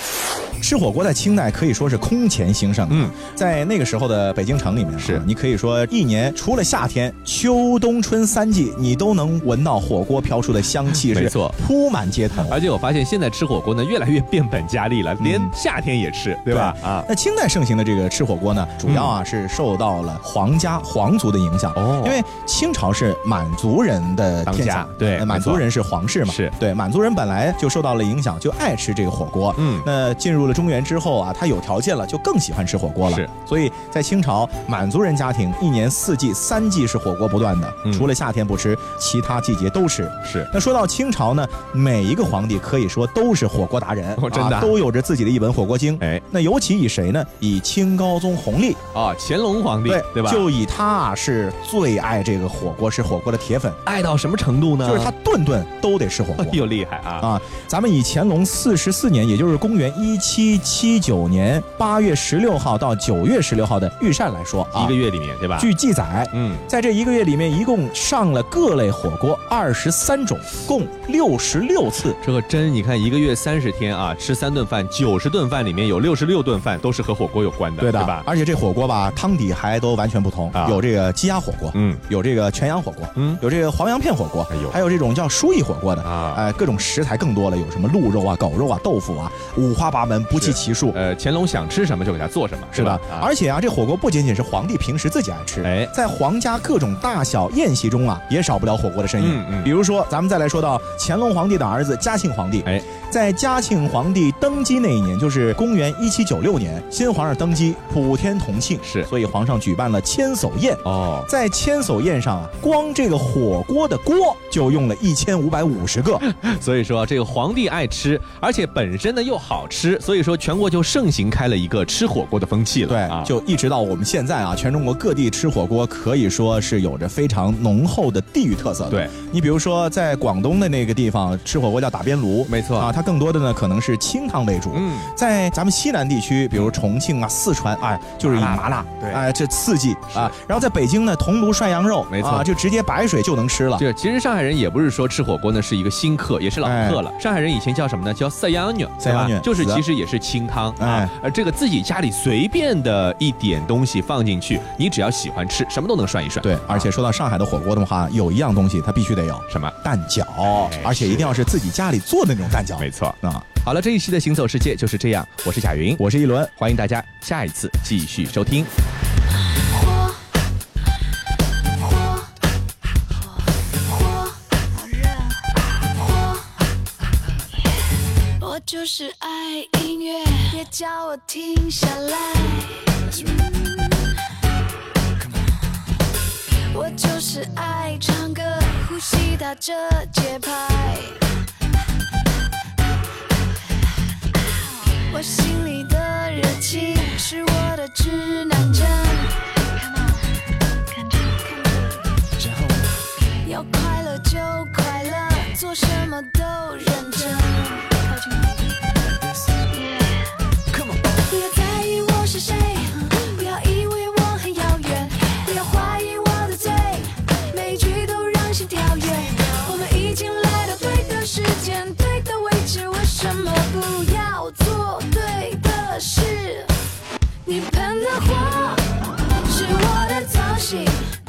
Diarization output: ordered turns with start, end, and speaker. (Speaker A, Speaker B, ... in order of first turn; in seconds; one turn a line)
Speaker A: 0.6-12.6
Speaker B: 5.0-5.2
Speaker B: 10.9-11.6
Speaker B: 12.4-17.1
Speaker A: 15.2-15.5
Speaker A: 16.5-48.8
Speaker B: 18.9-19.1
Speaker B: 21.7-22.2
Speaker B: 24.4-25.7
Speaker B: 26.2-26.5
Speaker B: 29.6-29.9
Speaker B: 40.2-40.5
Speaker B: 44.1-44.8
Speaker B: 48.9-50.5
Speaker A: 49.9-53.8
Speaker B: 53.8-55.1
Speaker A: 54.8-56.7
Speaker B: 56.4-57.3
Speaker A: 57.2-64.9
Speaker B: 64.7-65.7
Speaker A: 65.6-72.2
Speaker B: 66.3-66.6
Speaker B: 72.2-78.3
Speaker A: 77.8-91.0
Speaker B: 80.5-80.8
Speaker B: 81.7-82.0
Speaker B: 84.5-84.8
Speaker B: 86.0-86.4
Speaker B: 90.3-93.3
Speaker A: 92.7-116.2
Speaker B: 95.6-95.9
Speaker B: 99.2-99.7
Speaker B: 108.8-109.1
Speaker B: 110.8-111.3
Speaker B: 116.2-123.3
Speaker A: 122.9-143.8
Speaker B: 132.5-132.9
Speaker B: 134.7-135.1
Speaker B: 138.2-139.2
Speaker B: 142.1-142.5
Speaker B: 143.8-156.9
Speaker A: 146.6-147.0
Speaker A: 149.0-149.8
Speaker A: 150.8-151.1
Speaker A: 156.4-163.4
Speaker B: 159.5-159.7
Speaker B: 160.5-161.4
Speaker B: 162.8-166.0
Speaker A: 166.0-166.5
Speaker B: 166.6-168.7
Speaker C: 169.5-170.2
Speaker C: 171.7-172.3
Speaker C: 173.7-176.6
Speaker C: 178.4-184.2
Speaker C: 186.7-191.2
Speaker C: 195.1-200.3
Speaker C: 200.9-202.1
Speaker C: 203.4-208.8
Speaker C: 209.7-210.3
Speaker C: 211.1-226.7
Speaker C: 227.4-231.1